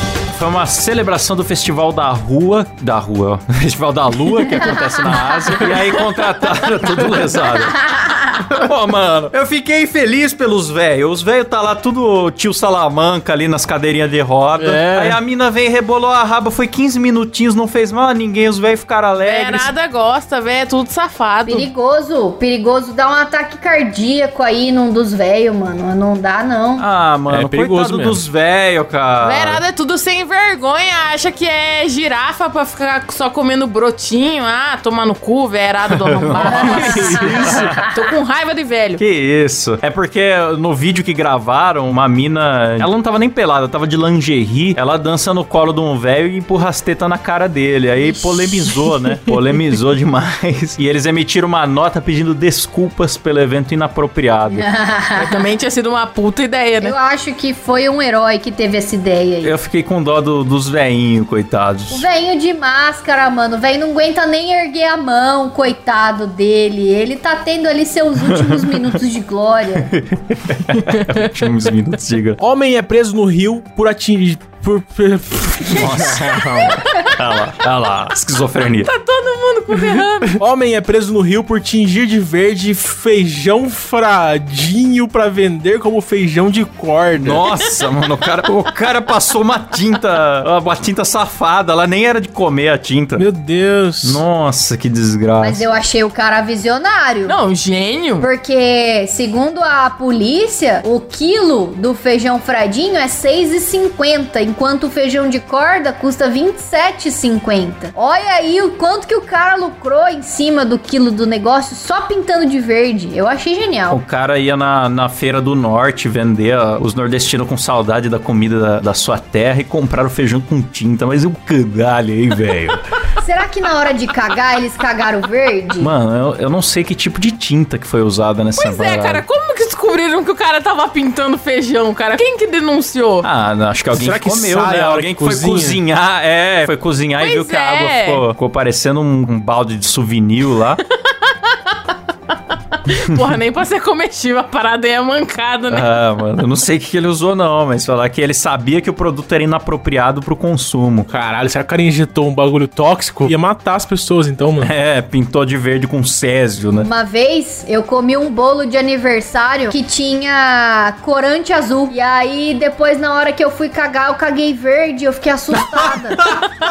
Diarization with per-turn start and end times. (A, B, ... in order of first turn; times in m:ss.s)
0:00.4-0:07.9 A
0:04.6-0:05.4 B
0:08.5-0:19.7 A
0:14.6-0:15.2 C
0:19.2-0:21.7 D
0:21.5-0:26.9 B
0:26.8-0:29.6 A
0:27.3-0:28.3 C
0:29.2-0:39.0 D
0:36.2-0:36.6 A
0:36.5-0:37.8 C
0:36.6-0:37.3 B
0:39.0-0:54.7 A
0:54.5-0:55.3 B
0:55.2-0:56.9 D
0:56.8-0:59.6 B
0:59.4-1:02.1 A
1:01.9-1:09.9 B
1:08.3-1:08.9 A
1:09.9-1:12.4 A
1:12.4-1:16.4 C
1:15.8-1:18.9 A
1:16.6-1:17.0 D
1:18.6-1:20.4 D
1:20.4-1:27.5 C
1:27.2-1:33.2 A
1:33.2-1:34.2 C
1:34.0-1:35.6 A
1:35.4-1:37.4 B
1:37.3-1:38.3 D
1:38.2-1:54.0 B
1:53.9-2:02.8 A
2:03.2-2:05.9 B
2:05.8-2:09.2 A
2:08.6-2:13.3 D
2:13.2-2:20.8 A
2:13.9-2:15.8 C
2:17.2-2:18.2 D
2:21.3-2:21.6 D
2:22.9-2:25.9 D
2:25.7-2:31.1 A
2:31.1-2:34.7 C
2:34.6-2:36.9 A
2:36.8-2:46.3 B